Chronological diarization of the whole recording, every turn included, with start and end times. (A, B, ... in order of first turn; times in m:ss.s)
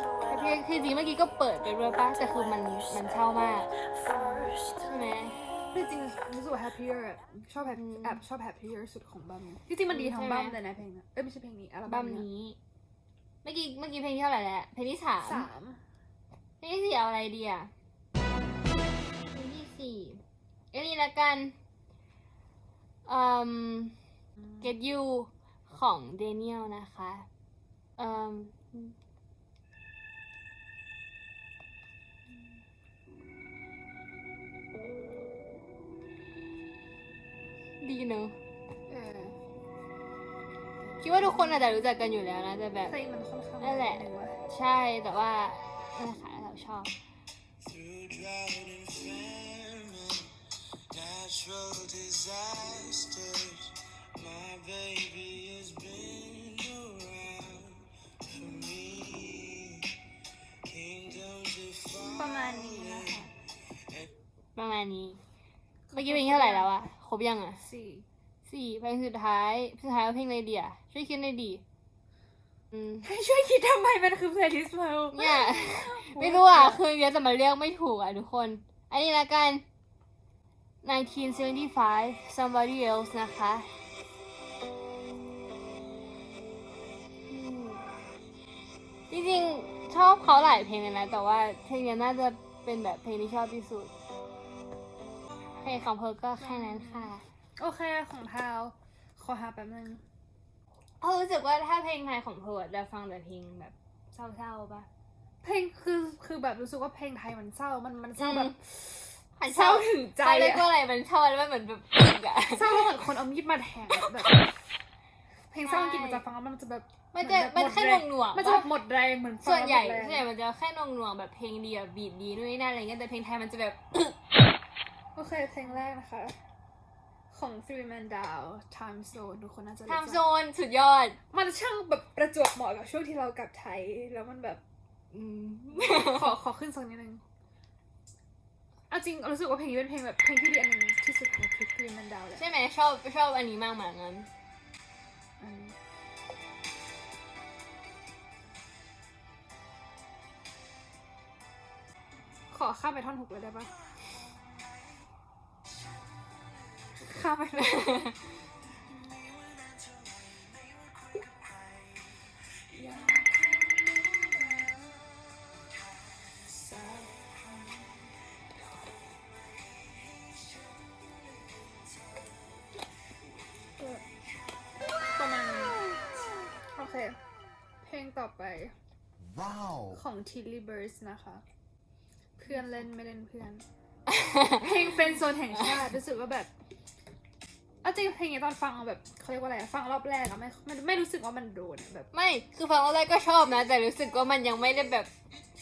0:00.2-0:03.7 A
0:04.8-0:05.4 A
0:05.7-0:12.3 B
0:07.7-0:08.2 A
0:09.9-0:10.6 A
0:11.9-0:12.6 A
0:13.4-0:15.5 A
0:15.2-0:15.8 B
0:16.6-0:17.7 A
0:19.3-0:21.6 A
0:23.0-0:24.0 A
0:24.6-0:27.3 A
0:28.0-0:28.9 A
0:37.8-0:38.4 A
0:38.9-0:39.4 B
0:41.0-0:42.9 A
0:42.8-0:44.4 B
0:43.6-0:46.9 A
0:47.7-0:50.2 C
0:50.9-0:53.6 C
0:54.2-0:57.6 C
0:58.4-0:59.5 C
1:00.7-1:01.9 C
1:02.0-1:03.3 B
1:04.6-1:05.2 A
1:05.9-1:06.7 B
1:05.9-1:07.6 A
1:07.6-1:08.1 B
1:08.4-1:11.6 A
1:13.0-1:16.8 B
1:15.1-1:19.6 A
1:20.8-1:23.7 A
1:27.3-1:27.9 A
1:29.1-1:33.9 A
1:35.6-1:37.2 A
1:36.4-1:40.0 B
1:41.0-1:44.9 A
1:45.4-1:50.7 B
1:48.2-1:48.6 A
1:49.4-1:52.8 A
1:52.5-1:54.4 B
1:55.5-2:00.2 B
1:55.6-1:56.2 A
1:57.1-1:58.7 A
1:59.4-2:04.2 A
2:05.2-2:06.4 B
2:07.3-2:10.2 B
2:09.9-2:11.2 A
2:11.3-2:14.6 B
2:15.1-2:16.3 A
2:15.7-2:17.2 B
2:18.9-2:22.4 B
2:22.3-2:24.3 A
2:25.4-2:25.8 B
2:32.5-2:33.7 B
2:37.0-2:38.2 B
2:37.7-2:38.2 A
2:42.7-2:43.4 B
2:53.8-2:54.0 B
2:55.2-2:55.8 B
2:56.8-2:57.2 B
2:57.8-2:58.7 B
2:59.9-3:01.4 B
3:02.4-3:03.6 B
3:04.1-3:04.6 A
3:04.6-3:06.5 B
3:07.8-3:12.1 B
3:12.1-3:15.1 A